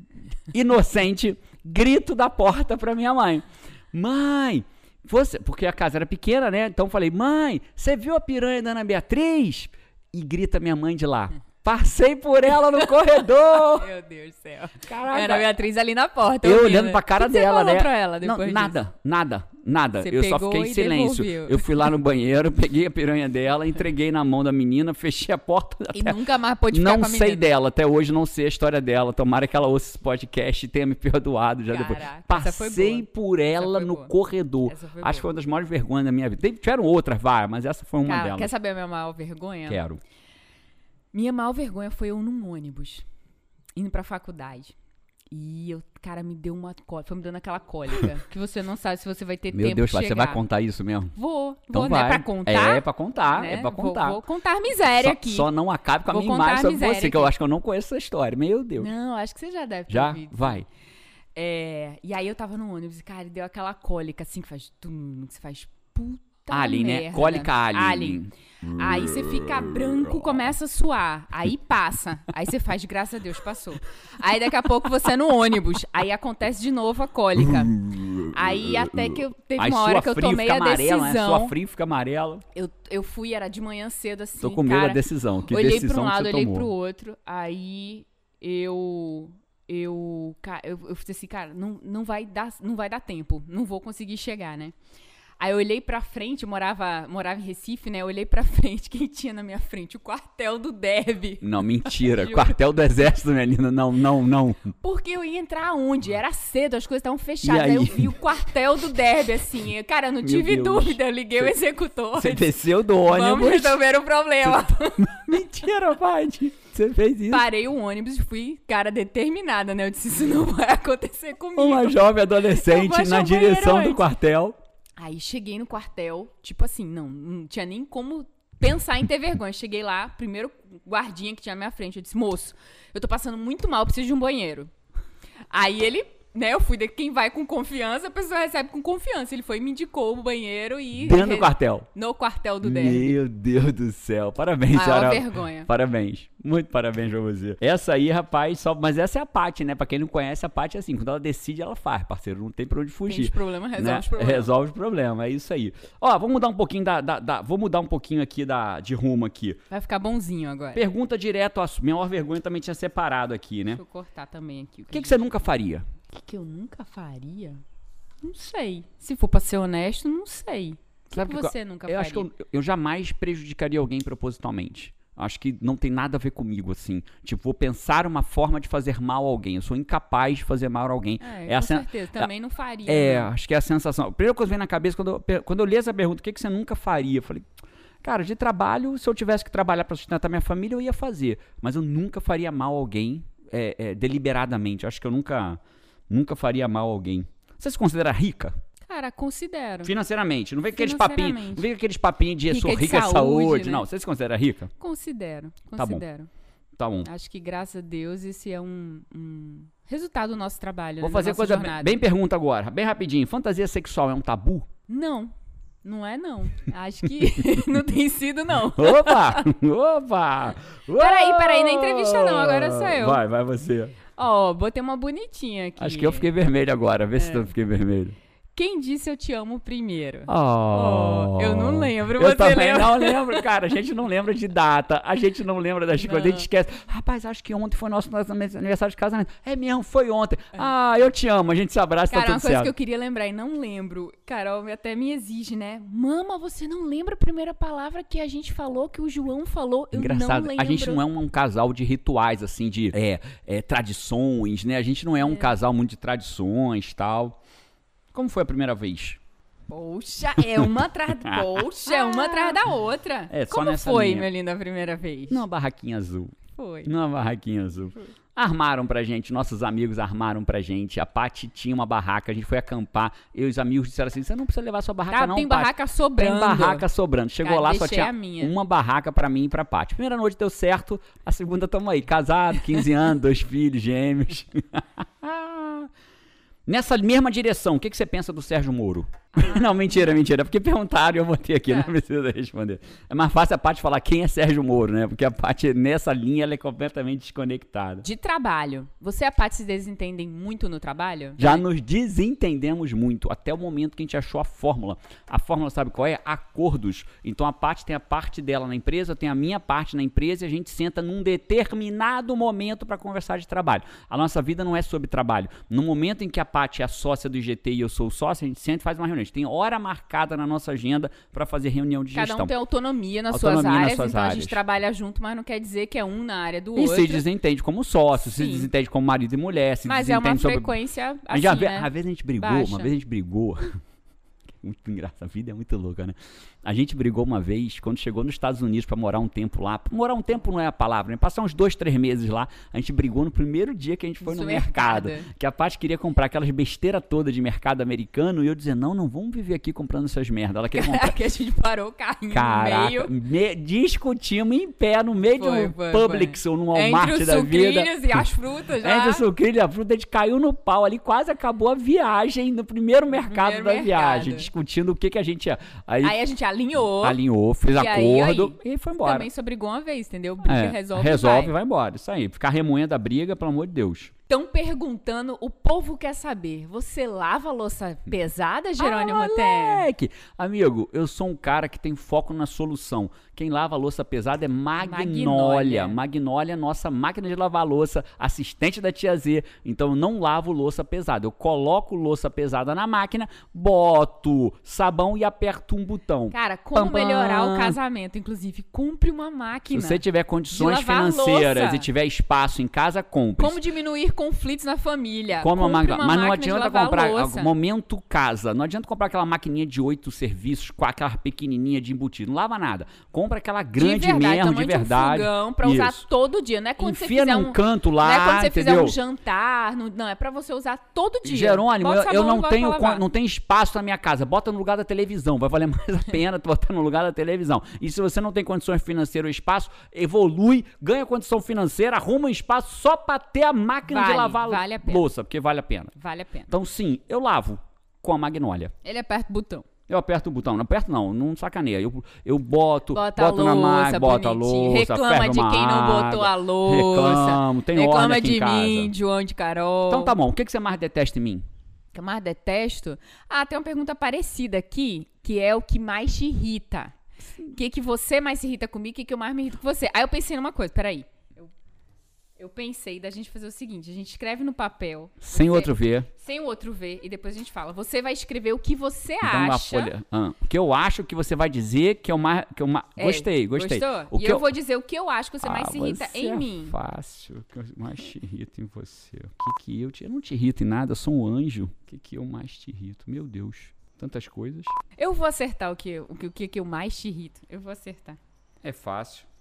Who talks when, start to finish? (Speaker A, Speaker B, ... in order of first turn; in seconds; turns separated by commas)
Speaker A: 0.5-13.9, Speaker B: 13.5-18.8, Speaker A: 14.8-15.5, Speaker A: 16.4-26.2, Speaker B: 20.0-21.9, Speaker B: 25.9-27.5, Speaker A: 26.7-38.5, Speaker B: 31.7-34.1, Speaker B: 34.6-35.3, Speaker B: 38.0-39.8, Speaker A: 39.7-40.0, Speaker B: 41.1-43.0, Speaker B: 43.8-44.8, Speaker B: 45.3-50.4, Speaker A: 49.5-51.1, Speaker B: 51.1-55.5, Speaker A: 51.7-54.2, Speaker A: 54.9-58.9, Speaker B: 56.1-57.3, Speaker B: 58.8-60.6, Speaker A: 59.9-60.7, Speaker B: 61.4-81.5, Speaker A: 66.5-68.3, Speaker A: 77.7-82.4, Speaker B: 82.5-94.8, Speaker A: 84.4-86.7, Speaker B: 95.4-102.6, Speaker A: 101.4-104.7, Speaker B: 104.8-115.1, Speaker A: 107.4-108.2, Speaker A: 110.2-111.5, Speaker A: 112.2-113.8, Speaker A: 114.4-117.5, Speaker B: 117.3-124.0, Speaker A: 121.6-124.6, Speaker B: 125.0-134.7, Speaker B: 135.5-143.2, Speaker A: 141.0-141.9, Speaker A: 142.6-159.6, Speaker B: 144.7-145.7, Speaker B: 153.1-154.5, Speaker B: 159.7-160.8, Speaker A: 160.8-163.8, Speaker B: 163.7-165.4, Speaker A: 164.9-165.9, Speaker B: 166.1-167.6, Speaker B: 168.2-172.3, Speaker A: 171.1-182.3, Speaker B: 181.2-183.3, Speaker A: 182.9-187.4, Speaker A: 188.0-198.6, Speaker B: 198.9-199.9, Speaker A: 199.8-204.7, Speaker B: 200.7-201.7, Speaker B: 202.5-203.9, Speaker B: 204.8-206.3, Speaker A: 205.8-206.0, Speaker A: 206.8-207.1, Speaker B: 207.1-212.0, Speaker A: 211.0-214.7, Speaker B: 214.9-219.5, Speaker A: 218.7-224.0, Speaker B: 220.9-223.2, Speaker B: 224.2-226.3, Speaker A: 225.8-228.2, Speaker B: 227.2-227.5, Speaker B: 228.6-233.5, Speaker A: 230.3-242.7, Speaker B: 236.0-236.5, Speaker B: 242.1-251.0, Speaker A: 249.9-257.4, Speaker B: 255.2-255.5, Speaker A: 258.1-259.2, Speaker B: 259.7-265.4, Speaker A: 261.2-262.6, Speaker A: 263.3-264.3, Speaker A: 265.3-285.9, Speaker B: 266.6-266.9, Speaker B: 275.1-276.9, Speaker B: 277.4-278.6, Speaker A: 286.7-298.1, Speaker B: 298.0-301.6, Speaker A: 301.4-322.5, Speaker B: 322.1-327.2, Speaker A: 323.3-324.6, Speaker A: 326.8-330.8, Speaker B: 328.2-328.7, Speaker B: 329.9-332.9, Speaker A: 331.3-333.8, Speaker A: 334.6-351.2, Speaker B: 344.2-345.3, Speaker B: 350.7-353.1, Speaker A: 352.3-358.2, Speaker B: 355.4-359.3, Speaker A: 358.8-366.2, Speaker B: 363.1-364.5, Speaker B: 366.0-367.2, Speaker A: 367.0-369.3, Speaker B: 367.7-371.5, Speaker A: 370.4-374.1, Speaker B: 374.3-379.9, Speaker A: 378.8-397.8, Speaker B: 384.8-386.0, Speaker B: 396.3-401.9, Speaker A: 399.7-403.6, Speaker B: 403.4-407.5, Speaker A: 405.4-416.0, Speaker B: 413.8-423.0, Speaker A: 416.8-419.0, Speaker A: 421.2-435.9, Speaker B: 433.9-435.1, Speaker B: 435.9-436.5, Speaker A: 436.5-438.7, Speaker B: 438.8-439.7, Speaker A: 439.9-448.9, Speaker B: 442.9-450.1, Speaker A: 449.9-451.4, Speaker B: 451.9-456.9, Speaker B: 457.5-461.5, Speaker B: 462.4-469.9, Speaker A: 465.2-466.1, Speaker A: 469.2-474.5, Speaker B: 473.0-476.8, Speaker A: 475.4-484.7, Speaker B: 485.0-488.2, Speaker A: 488.6-489.3